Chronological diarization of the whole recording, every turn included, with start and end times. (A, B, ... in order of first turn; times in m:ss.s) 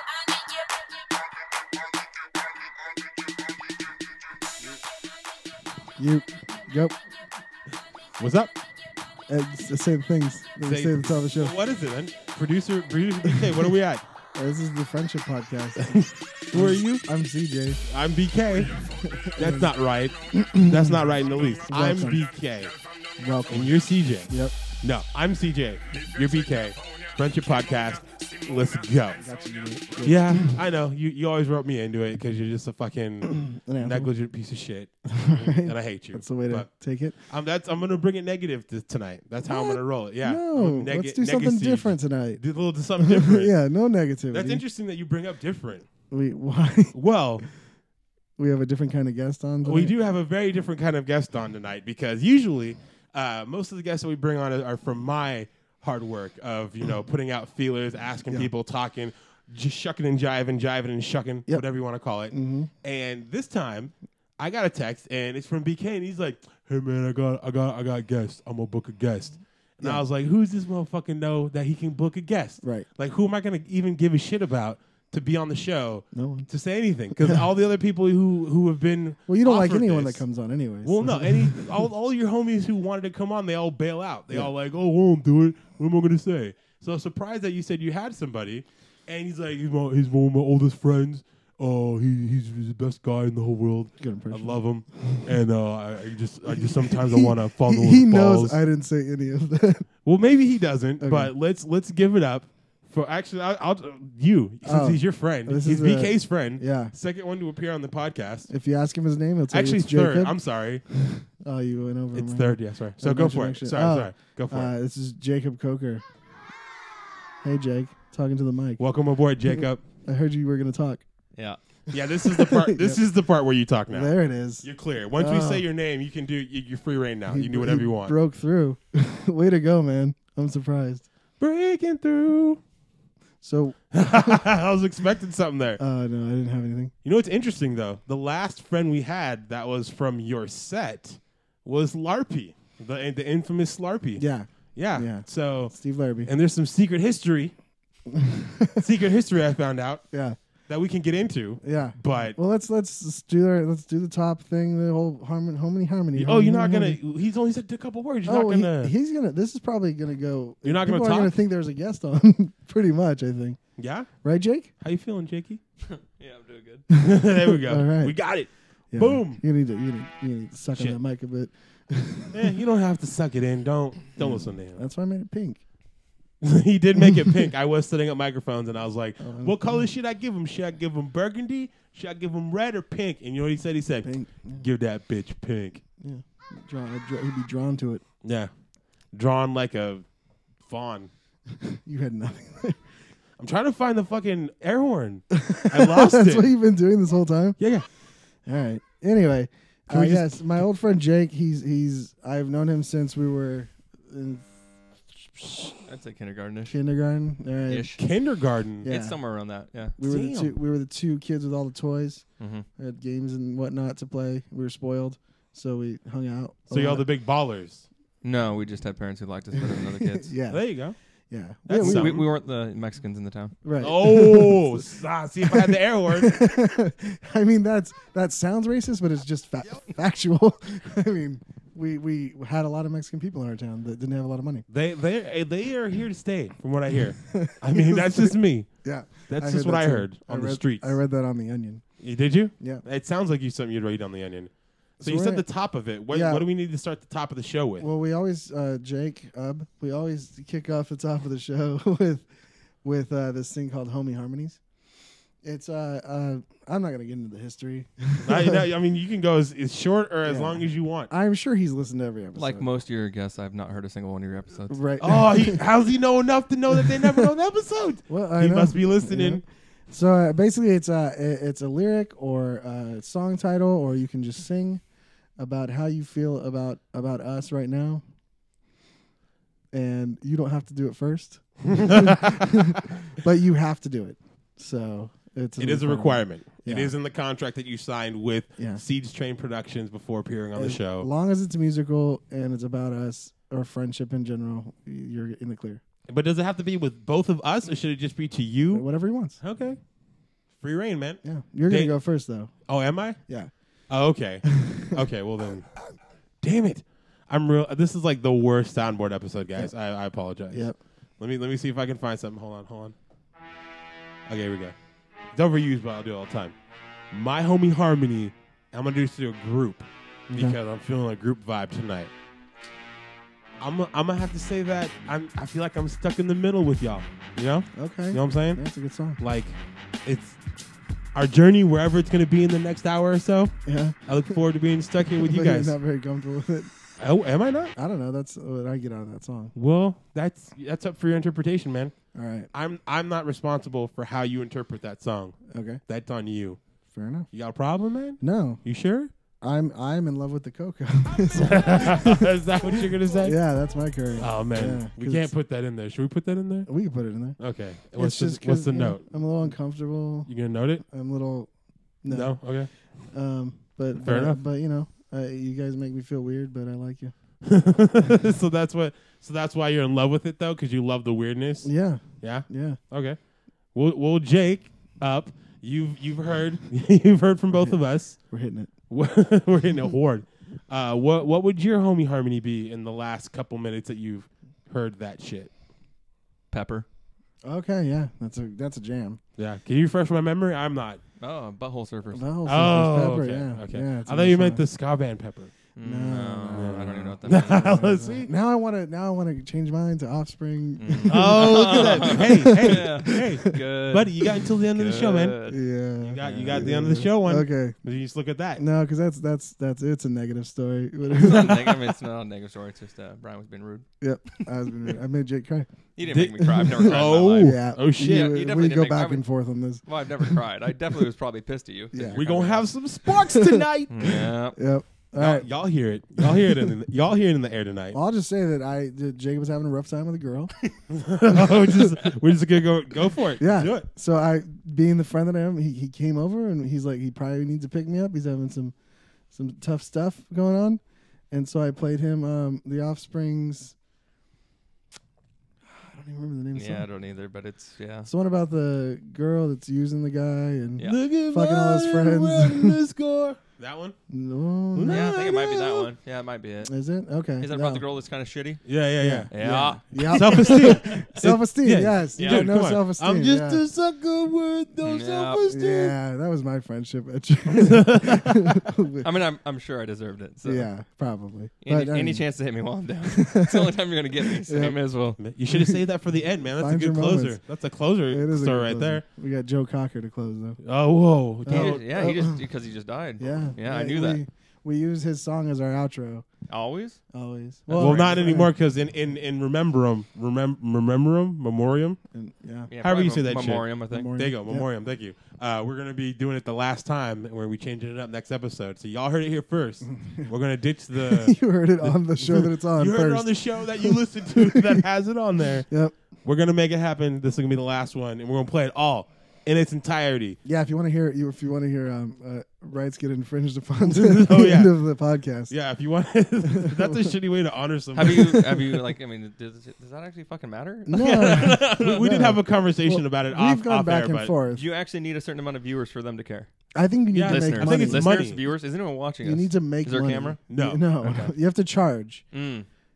0:06.0-0:07.0 A
0:08.2-0:08.5 B
0:09.3-0:11.6 A
0:10.6-0:14.0 B
0:14.3-0:17.8 A
0:15.8-0:17.0 B
0:17.9-0:18.8 B
0:18.8-0:19.7 A
0:19.4-0:22.7 B
0:20.3-0:21.1 A
0:21.7-0:22.2 A
0:23.2-0:24.6 A
0:23.5-0:24.3 B
0:24.8-0:29.2 B
0:29.2-0:30.6 A
0:30.0-0:36.7 B
0:33.2-0:34.1 A
0:35.0-0:37.2 A
0:37.3-0:43.5 B
0:39.5-0:42.4 A
0:43.0-0:44.6 A
0:44.3-0:45.8 B
0:46.1-0:46.9 A
0:46.9-0:47.4 B
0:48.4-0:49.9 A
0:49.6-1:20.2 B
1:02.3-1:02.7 A
1:16.1-1:16.5 A
1:17.2-1:17.4 A
1:19.3-1:21.8 A
1:20.8-1:38.6 B
1:34.0-1:35.2 A
1:36.5-1:39.9 A
1:40.0-1:48.5 B
1:41.0-1:41.3 A
1:44.6-1:46.9 A
1:48.5-1:50.3 A
1:49.5-1:50.8 B
1:50.9-1:56.0 A
1:52.1-1:54.7 B
1:57.4-1:58.8 A
1:58.8-1:59.8 B
1:59.5-2:01.0 A
2:01.9-2:08.1 B
2:02.1-2:03.0 A
2:03.9-2:04.6 A
2:05.2-2:05.6 A
2:07.3-2:11.0 A
2:11.4-2:12.6 B
2:13.4-2:14.4 A
2:13.9-2:15.8 B
2:15.8-2:16.9 A
2:17.0-2:24.2 B
2:24.2-2:26.3 A
2:24.7-2:25.7 B
2:26.2-2:27.5 B
2:28.1-2:28.8 A
2:28.8-2:30.0 B
2:30.1-2:30.4 A
2:30.7-2:32.4 B
2:31.6-2:37.0 A
2:36.2-2:38.9 B
2:38.2-2:43.6 A
2:40.6-2:41.3 B
2:43.8-2:44.1 B
2:44.2-2:44.7 A
2:44.8-2:45.6 B
2:45.9-2:46.9 C
2:46.9-2:48.1 A
2:47.0-2:49.4 B
2:48.9-2:52.5 A
2:52.3-2:54.8 B
2:54.2-2:55.6 A
2:56.4-3:05.8 B
2:57.0-2:57.5 A
2:59.2-2:59.8 A
3:04.0-3:04.6 A
3:06.0-3:08.0 A
3:08.2-3:08.5 B
3:09.1-3:10.0 B
3:10.6-3:11.1 B
3:11.5-3:12.8 A
3:13.4-3:16.5 B
3:15.3-3:17.6 A
3:17.6-3:17.9 B
3:18.4-3:24.4 A
3:19.9-3:20.2 B
3:25.2-3:25.8 A
3:25.9-3:26.8 C
3:26.7-3:28.0 A
3:27.7-3:28.0 C
3:28.0-3:28.9 B
3:28.8-3:29.2 A
3:28.8-3:30.0 C
3:30.0-3:32.2 A
3:30.0-3:30.5 B
3:32.4-3:32.6 C
3:32.8-3:37.0 A
3:36.7-3:37.8 B
3:38.2-3:40.3 C
3:39.6-3:40.6 A
3:40.5-3:40.9 B
3:41.3-3:42.2 A
3:41.6-3:42.2 B
3:41.8-3:43.5 C
3:43.6-3:44.8 A
3:43.8-3:46.4 B
3:45.4-3:54.6 A
3:54.7-3:58.7 B
3:57.1-4:01.8 A
3:59.3-4:00.9 B
4:02.0-4:07.9 B
4:05.0-4:05.5 A
4:06.1-4:06.4 A
4:07.8-4:12.3 A
4:12.8-4:14.6 A
4:15.4-4:18.6 A
4:18.2-4:21.1 B
4:20.2-4:22.6 A
4:22.4-4:24.8 C
4:24.7-4:25.6 A
4:25.0-4:29.4 B
4:26.7-4:27.3 A
4:28.1-4:34.8 A
4:35.4-4:38.0 A
4:39.7-4:46.9 A
4:41.6-4:42.7 B
4:45.6-4:51.1 B
4:48.6-4:48.8 A
4:50.5-4:55.8 A
4:56.1-4:58.8 B
4:58.7-4:59.4 A
4:59.4-4:59.8 B
5:00.6-5:02.0 B
5:01.2-5:02.5 A
5:02.7-5:03.2 B
5:03.9-5:05.7 B
5:04.4-5:05.0 A
5:06.4-5:10.7 B
5:10.5-5:10.8 A
5:11.2-5:12.9 B
5:14.3-5:14.7 B
5:15.3-5:16.5 B
5:17.1-5:22.1 B
5:20.3-5:20.6 A
5:23.6-5:28.6 B
5:27.7-5:29.2 A
5:29.2-5:30.4 B
5:31.1-5:33.5 B
5:33.6-5:34.4 A
5:34.1-5:35.8 B
5:35.2-5:36.7 A
5:37.0-5:37.7 B
5:37.7-5:39.5 A
5:39.5-5:41.9 B
5:42.1-5:42.5 A
5:42.5-5:46.6 B
5:45.5-5:45.8 A
5:46.9-5:47.3 A
5:47.3-5:49.1 B
5:48.2-5:48.6 A
5:49.4-5:52.3 A
5:51.3-5:53.4 B
5:53.2-5:55.3 A
5:54.2-5:56.7 B
5:56.7-5:57.4 A
5:57.4-5:59.0 B
5:57.9-6:00.3 A
6:00.3-6:00.8 B
6:00.9-6:01.5 A
6:02.0-6:02.4 A
6:02.1-6:02.7 B
6:03.1-6:07.1 A
6:04.0-6:04.4 B
6:07.4-6:13.2 B
6:11.6-6:12.8 A
6:13.7-6:18.2 B
6:17.5-6:18.7 A
6:18.9-6:25.5 B
6:26.5-6:26.8 C
6:27.4-6:29.2 A
6:29.4-6:31.0 B
6:31.2-6:32.3 C
6:32.1-6:34.6 A
6:32.5-6:35.5 B
6:35.8-6:37.8 C
6:35.8-6:43.6 A
6:36.5-6:38.3 B
6:40.8-6:45.6 C
6:41.0-6:45.4 B
6:45.5-6:47.8 A
6:46.0-6:48.6 B
6:46.2-6:46.6 C
6:48.6-6:51.8 A
6:51.1-6:54.9 C
6:51.2-6:51.7 B
6:54.0-6:55.7 A
6:56.0-6:59.2 C
6:56.0-6:58.3 B
6:56.5-7:00.4 A
6:59.8-7:02.6 C
7:01.9-7:02.2 A
7:02.1-7:04.3 B
7:03.2-7:03.6 A
7:03.9-7:04.6 C
7:04.5-7:05.5 A
7:05.2-7:08.0 B
7:06.2-7:06.7 A
7:07.9-7:10.5 A
7:10.9-7:13.8 B
7:11.3-7:12.0 A
7:13.4-7:18.7 A
7:19.3-7:23.7 A
7:25.6-7:26.9 A
7:26.5-7:28.1 C
7:28.0-7:32.8 A
7:30.8-7:33.9 B
7:34.1-7:35.2 A
7:34.7-7:35.9 B
7:34.9-7:36.7 C
7:36.6-7:37.8 A
7:37.4-7:38.6 C
7:38.6-7:39.3 B
7:39.0-7:43.6 A
7:39.3-7:40.8 C
7:40.0-7:45.9 B
7:42.2-7:42.5 C
7:44.8-7:45.4 C
7:45.4-7:49.1 A
7:47.5-7:48.6 B
7:49.0-7:50.7 C
7:50.4-7:52.2 A
7:51.6-7:55.2 C
7:53.0-7:54.8 A
7:55.2-7:59.0 B
7:55.5-7:55.8 A
7:56.6-7:57.4 A
7:58.1-8:00.6 A
8:00.6-8:01.9 B
8:01.4-8:02.4 A
8:01.5-8:04.2 C
8:03.2-8:06.3 A
8:06.5-8:07.0 C
8:07.1-8:08.5 A
8:07.7-8:08.4 C
8:07.8-8:12.0 B
8:12.1-8:12.7 A
8:12.7-8:14.1 C
8:12.8-8:25.7 B
8:13.9-8:14.7 A
8:19.8-8:20.3 A
8:21.0-8:24.8 A
8:25.7-8:26.0 A
8:26.2-8:30.4 B
8:30.4-8:35.5 A
8:33.8-8:34.7 B
8:35.5-8:38.4 B
8:36.4-8:37.1 A
8:37.9-8:42.0 C
8:38.0-8:38.7 A
8:40.9-8:44.6 A
8:41.0-8:44.3 B
8:44.5-8:46.5 C
8:46.7-8:48.1 A
8:47.1-8:48.4 B
8:47.2-8:50.4 C
8:49.2-8:52.2 A
8:50.5-8:50.8 B
8:51.0-8:51.3 C
8:52.3-8:52.7 C